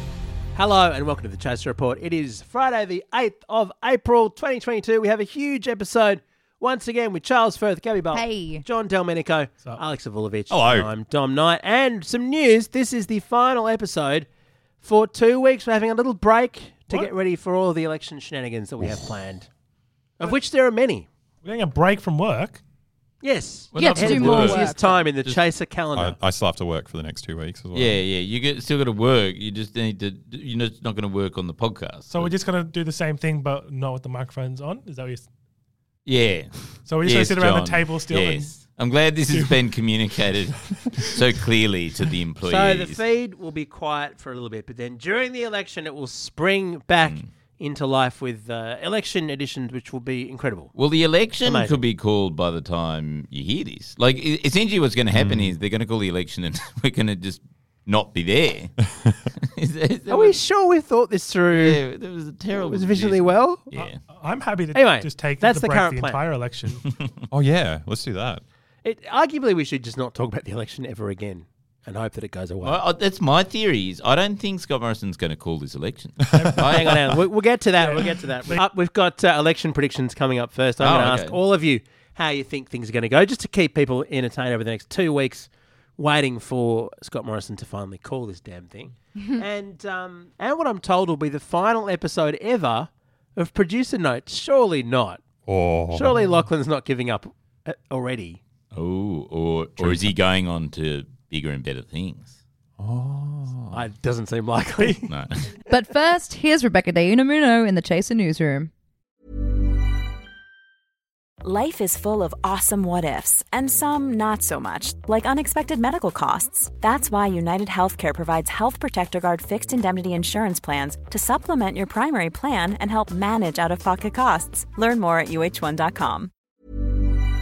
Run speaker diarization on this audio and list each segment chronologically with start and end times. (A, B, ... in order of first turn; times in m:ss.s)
0:00.6-0:14.3 A
0:08.1-0:08.6 B
0:10.5-0:10.9 C
0:14.8-0:19.5 A
0:16.9-0:17.2 D
0:20.2-0:21.1 A
0:21.4-0:22.6 D
0:23.2-0:26.2 A
0:23.7-0:24.7 E
0:23.8-0:25.1 B
0:26.0-0:28.0 C
0:27.7-0:32.3 E
0:32.1-0:35.3 D
0:36.1-0:43.0 E
0:36.9-0:38.6 D
0:39.3-0:39.6 D
0:42.4-0:50.7 A
0:50.8-0:58.8 E
0:51.4-0:51.8 A
0:55.1-0:55.6 C
0:59.4-1:00.4 E
1:00.1-1:01.8 A
1:01.5-1:04.0 E
1:02.5-1:03.7 A
1:03.8-1:06.8 D
1:04.7-1:06.4 A
1:07.3-1:08.4 C
1:08.8-1:12.8 A
1:12.6-1:17.1 E
1:16.3-1:16.8 D
1:16.7-1:35.2 A
1:17.8-1:18.6 D
1:20.8-1:21.4 E
1:35.5-1:36.2 C
1:35.9-1:38.4 A
1:38.7-1:42.3 E
1:39.8-1:40.1 A
1:42.8-1:43.8 C
1:43.7-1:45.1 A
1:45.1-1:45.4 E
1:45.7-1:48.7 B
1:51.5-2:06.3 F